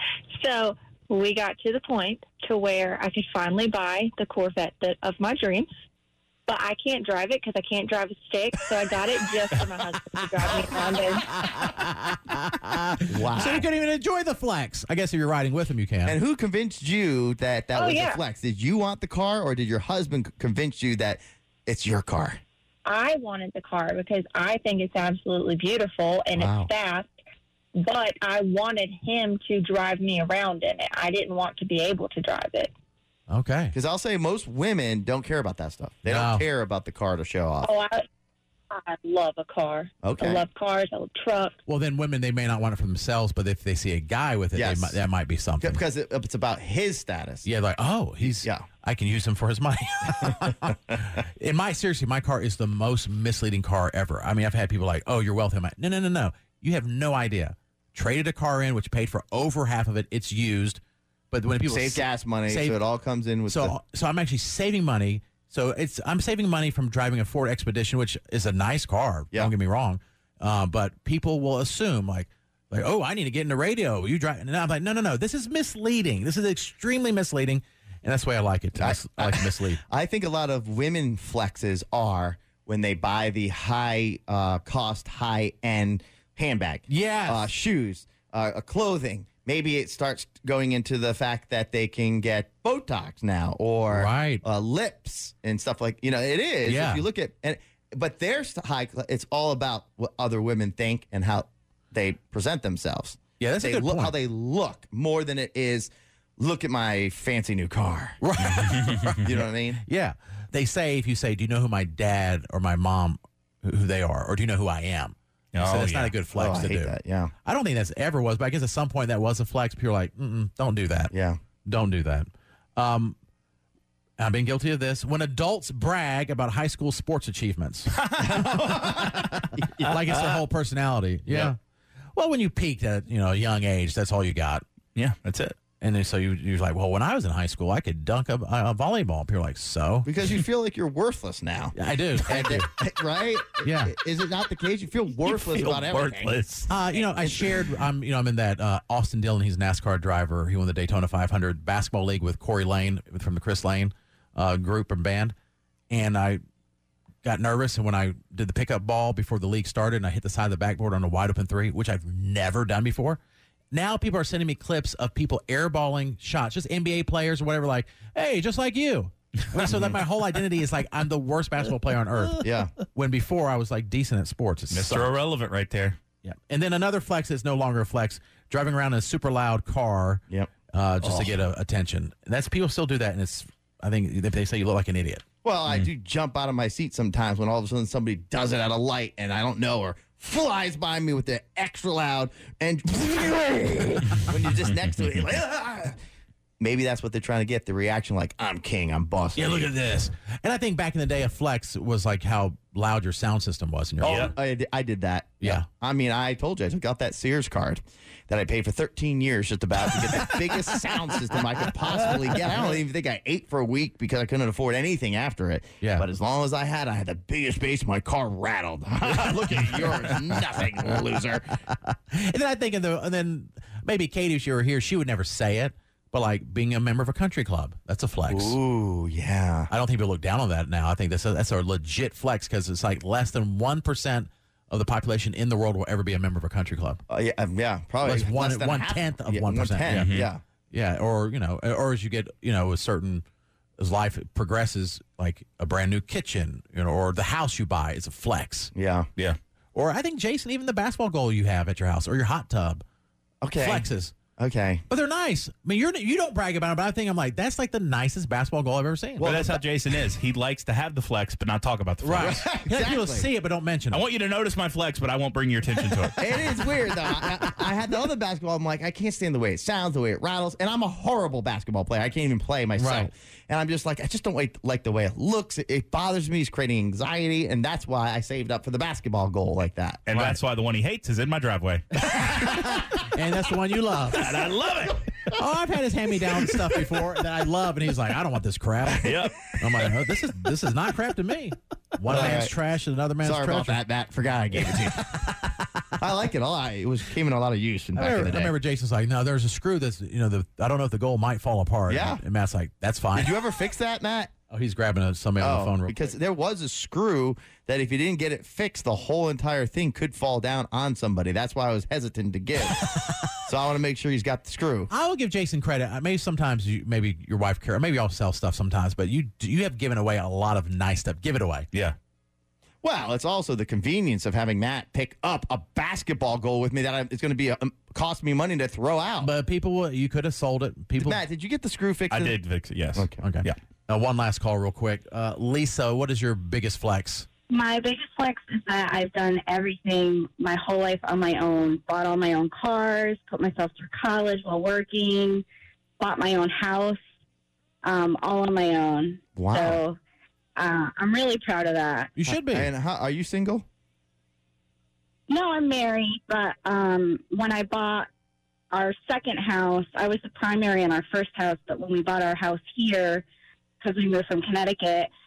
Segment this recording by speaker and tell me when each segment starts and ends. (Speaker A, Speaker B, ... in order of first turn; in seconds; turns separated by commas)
Speaker A: 0.3-5.7, Speaker A: 6.5-11.3, Speaker B: 11.3-16.2, Speaker C: 13.1-13.7, Speaker C: 16.1-22.4, Speaker A: 17.8-18.2, Speaker A: 22.9-27.1, Speaker C: 26.4-26.7, Speaker A: 27.8-32.7, Speaker B: 33.3-33.7, Speaker C: 33.7-37.7, Speaker B: 36.1-36.5, Speaker A: 37.6-38.1, Speaker A: 38.7-41.6, Speaker C: 40.0-40.4, Speaker B: 41.7-45.8, Speaker C: 44.5-45.0, Speaker C: 45.6-47.5, Speaker B: 47.5-60.8, Speaker C: 48.4-48.7, Speaker B: 61.3-62.8, Speaker C: 61.6-63.8, Speaker B: 63.5-79.8, Speaker C: 78.8-108.2, Speaker B: 86.9-87.5, Speaker B: 93.9-94.4, Speaker B: 96.7-97.0, Speaker B: 103.4-104.1, Speaker B: 108.2-116.9, Speaker C: 109.2-109.8, Speaker D: 115.5-116.1, Speaker C: 116.3-117.3, Speaker B: 117.5-121.1, Speaker C: 121.1-121.4, Speaker B: 121.7-123.2, Speaker B: 124.2-131.6, Speaker C: 128.2-130.0, Speaker B: 132.1-134.6, Speaker D: 135.0-135.6, Speaker B: 135.8-140.1, Speaker C: 140.1-146.4, Speaker B: 141.8-142.7, Speaker B: 143.6-143.9, Speaker D: 145.3-146.7, Speaker B: 146.7-155.3, Speaker C: 147.0-147.5, Speaker B: 155.9-156.4, Speaker B: 157.2-163.2, Speaker B: 163.7-172.4, Speaker C: 172.4-172.7, Speaker B: 172.9-175.1, Speaker D: 174.7-176.0, Speaker B: 176.2-185.2, Speaker C: 181.0-181.3, Speaker C: 185.4-196.0, Speaker C: 196.6-199.7, Speaker B: 199.4-204.3, Speaker C: 204.0-221.5, Speaker D: 204.0-204.3, Speaker B: 221.8-228.6, Speaker C: 228.3-229.7, Speaker B: 229.7-237.0, Speaker C: 237.1-240.4, Speaker B: 238.0-240.1, Speaker D: 239.9-240.3, Speaker B: 240.7-243.2, Speaker B: 243.8-248.7, Speaker C: 248.8-249.1, Speaker B: 249.7-252.8, Speaker C: 253.4-254.8, Speaker B: 253.6-254.1, Speaker B: 254.9-259.3, Speaker C: 259.2-259.6, Speaker D: 259.2-262.3, Speaker B: 262.0-264.0, Speaker C: 262.2-263.3, Speaker D: 263.9-266.2, Speaker C: 266.2-280.0, Speaker B: 272.8-273.1, Speaker D: 280.1-282.1, Speaker B: 280.1-280.4, Speaker B: 283.0-284.2, Speaker D: 284.1-285.0, Speaker B: 285.3-289.1, Speaker D: 289.1-289.9, Speaker B: 289.6-293.8, Speaker C: 292.1-292.5, Speaker C: 293.2-295.1, Speaker C: 296.0-298.5, Speaker B: 298.0-303.3, Speaker C: 301.9-302.2, Speaker C: 303.1-304.3, Speaker B: 304.5-306.1, Speaker C: 305.4-312.9, Speaker B: 312.8-313.2, Speaker C: 313.4-314.9, Speaker B: 314.9-321.7, Speaker C: 322.8-329.3, Speaker B: 329.2-331.2, Speaker C: 331.0-332.4, Speaker D: 332.1-333.5, Speaker C: 333.0-333.2, Speaker B: 333.2-337.3, Speaker E: 337.5-345.4, Speaker E: 346.0-347.0, Speaker E: 347.8-350.0, Speaker C: 349.4-349.8, Speaker E: 350.6-352.1, Speaker B: 352.2-352.7, Speaker C: 352.3-353.6, Speaker E: 355.3-358.1, Speaker E: 358.7-363.2, Speaker E: 363.8-365.1